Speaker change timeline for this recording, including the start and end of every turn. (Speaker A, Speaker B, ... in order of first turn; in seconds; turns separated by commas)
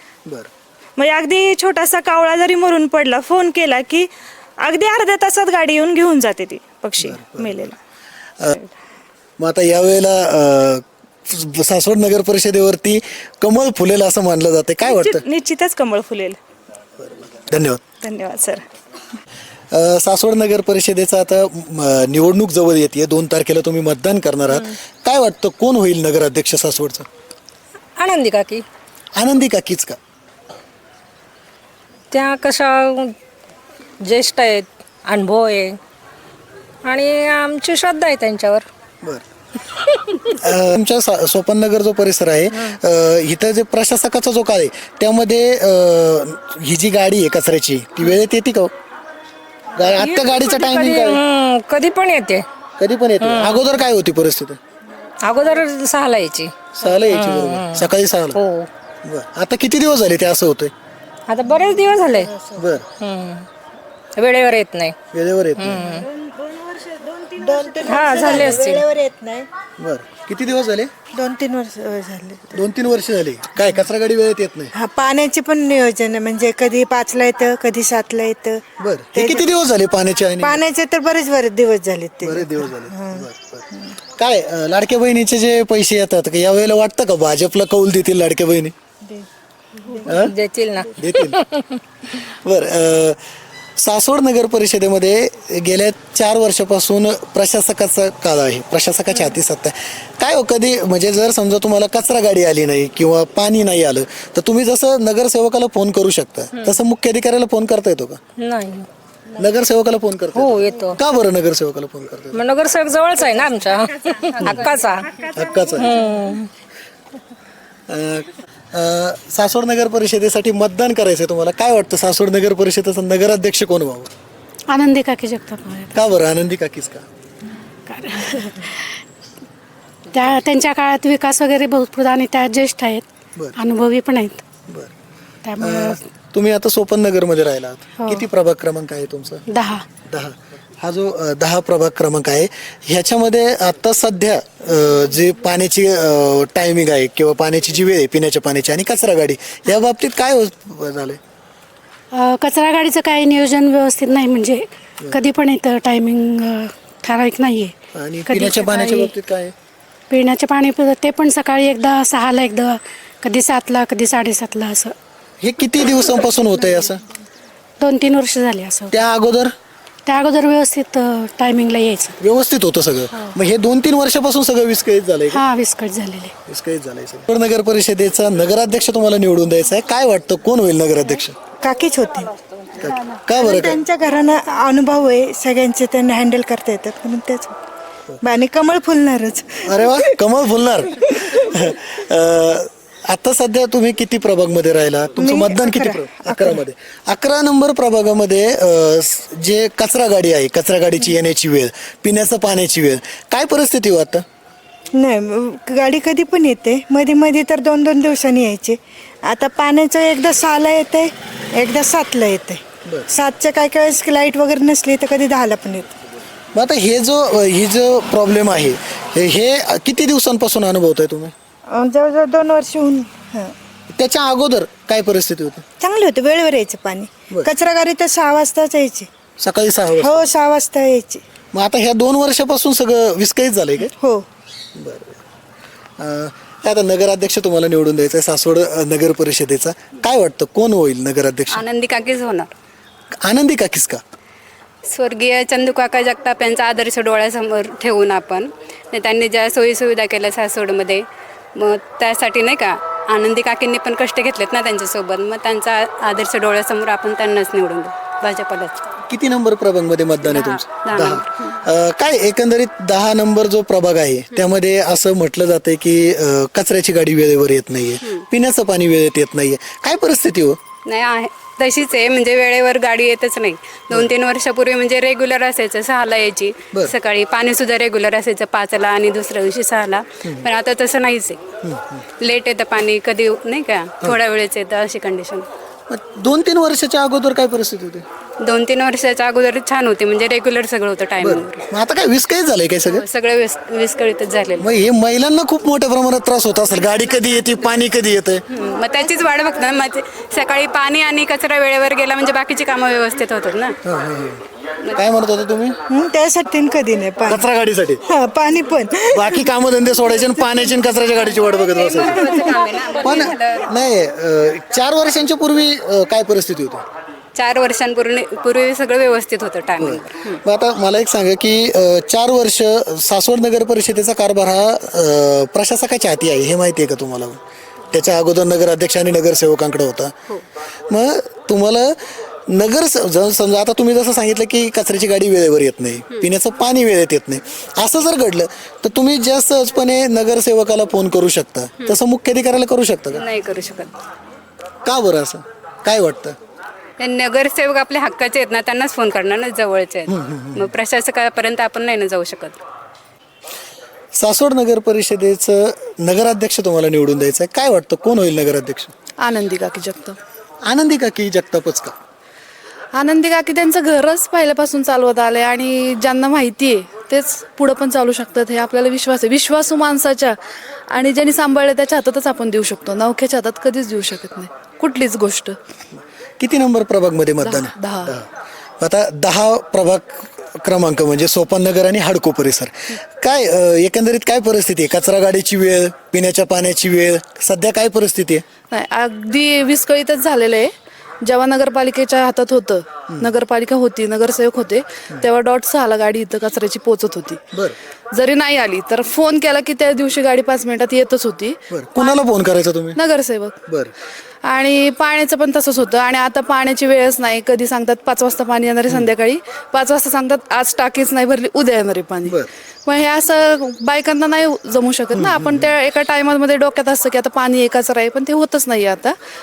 Speaker A: 1.0-4.1, Speaker A: 4.6-7.7, Speaker B: 7.0-7.6, Speaker B: 9.4-15.2, Speaker A: 14.8-16.4, Speaker B: 17.0-17.8, Speaker A: 18.0-18.6, Speaker B: 19.7-27.1, Speaker C: 27.9-28.7, Speaker B: 29.1-30.0, Speaker C: 32.1-33.1, Speaker C: 34.0-35.8, Speaker C: 36.8-38.7, Speaker C: 39.8-40.3, Speaker B: 40.3-48.7, Speaker B: 49.8-51.2, Speaker C: 50.1-52.5, Speaker B: 52.8-54.6, Speaker C: 53.2-53.6, Speaker C: 55.2-58.7, Speaker B: 56.7-58.4, Speaker B: 59.0-60.7, Speaker C: 61.3-62.3, Speaker D: 61.4-62.7, Speaker B: 62.6-62.9, Speaker C: 62.9-63.5, Speaker C: 64.2-65.0, Speaker B: 65.1-65.9, Speaker C: 65.6-66.1, Speaker A: 66.0-67.4, Speaker D: 67.3-69.5, Speaker C: 67.8-68.8, Speaker B: 69.8-70.9, Speaker D: 71.1-72.6, Speaker B: 72.5-74.7, Speaker D: 74.7-78.6, Speaker B: 78.8-80.6, Speaker D: 79.1-79.5, Speaker D: 80.4-83.3, Speaker B: 82.2-88.7, Speaker D: 89.9-90.9, Speaker B: 90.0-90.3, Speaker C: 90.1-91.8, Speaker B: 91.0-91.4, Speaker B: 92.1-93.2, Speaker B: 93.8-108.2, Speaker C: 108.4-108.9, Speaker B: 109.3-112.4, Speaker C: 110.3-111.0, Speaker C: 112.3-115.1, Speaker B: 114.4-114.7, Speaker B: 115.2-115.9, Speaker C: 115.8-116.5, Speaker B: 117.9-124.1, Speaker E: 124.7-125.9, Speaker B: 125.9-127.0, Speaker E: 127.9-129.0, Speaker E: 130.1-134.4, Speaker E: 135.4-136.0, Speaker B: 135.6-139.4, Speaker E: 138.0-138.2, Speaker E: 139.5-139.8, Speaker B: 140.1-151.2, Speaker E: 152.1-157.7, Speaker B: 157.9-159.5, Speaker E: 158.2-159.1, Speaker E: 160.1-164.9, Speaker B: 165.4-167.0, Speaker E: 167.8-168.9, Speaker B: 168.9-169.5, Speaker E: 170.1-172.1, Speaker B: 172.2-175.4, Speaker E: 175.3-176.3, Speaker B: 176.5-181.3, Speaker D: 181.6-182.3, Speaker B: 182.8-183.8, Speaker D: 183.3-187.6, Speaker D: 188.2-190.1, Speaker B: 189.7-204.2, Speaker D: 195.2-196.6, Speaker D: 204.9-215.9, Speaker B: 216.5-221.3, Speaker D: 221.7-223.5, Speaker B: 223.9-225.6, Speaker D: 225.8-229.1, Speaker B: 229.4-230.2, Speaker D: 230.0-231.2, Speaker B: 231.5-233.9, Speaker D: 234.0-234.2, Speaker B: 234.8-235.2, Speaker B: 236.0-241.6, Speaker F: 241.5-242.5, Speaker B: 243.2-244.0, Speaker F: 244.9-258.8, Speaker B: 259.1-270.6, Speaker F: 260.2-261.5, Speaker F: 270.9-281.4, Speaker B: 281.6-282.0, Speaker F: 282.2-285.4, Speaker B: 285.9-288.0, Speaker F: 288.4-291.7, Speaker B: 291.2-293.0, Speaker F: 292.9-294.7, Speaker B: 294.6-298.4, Speaker F: 298.5-303.8, Speaker B: 303.8-305.8, Speaker D: 305.9-307.5, Speaker B: 307.3-308.0, Speaker D: 308.1-309.5, Speaker B: 309.1-316.8, Speaker D: 310.0-310.7, Speaker F: 311.4-313.6, Speaker D: 312.1-312.5, Speaker F: 317.4-320.4, Speaker B: 319.8-327.4, Speaker B: 327.9-330.1, Speaker B: 330.9-343.2, Speaker F: 343.1-343.9, Speaker B: 344.8-346.4, Speaker F: 347.0-352.6, Speaker B: 350.1-350.7, Speaker B: 354.1-358.9, Speaker G: 359.2-360.2, Speaker B: 360.6-361.9, Speaker G: 362.9-375.6, Speaker B: 376.4-378.2, Speaker G: 377.4-378.1, Speaker B: 378.8-388.4, Speaker G: 388.7-397.4, Speaker G: 398.1-402.2, Speaker B: 401.7-403.0, Speaker G: 402.9-403.6, Speaker G: 404.4-419.1, Speaker B: 415.1-415.7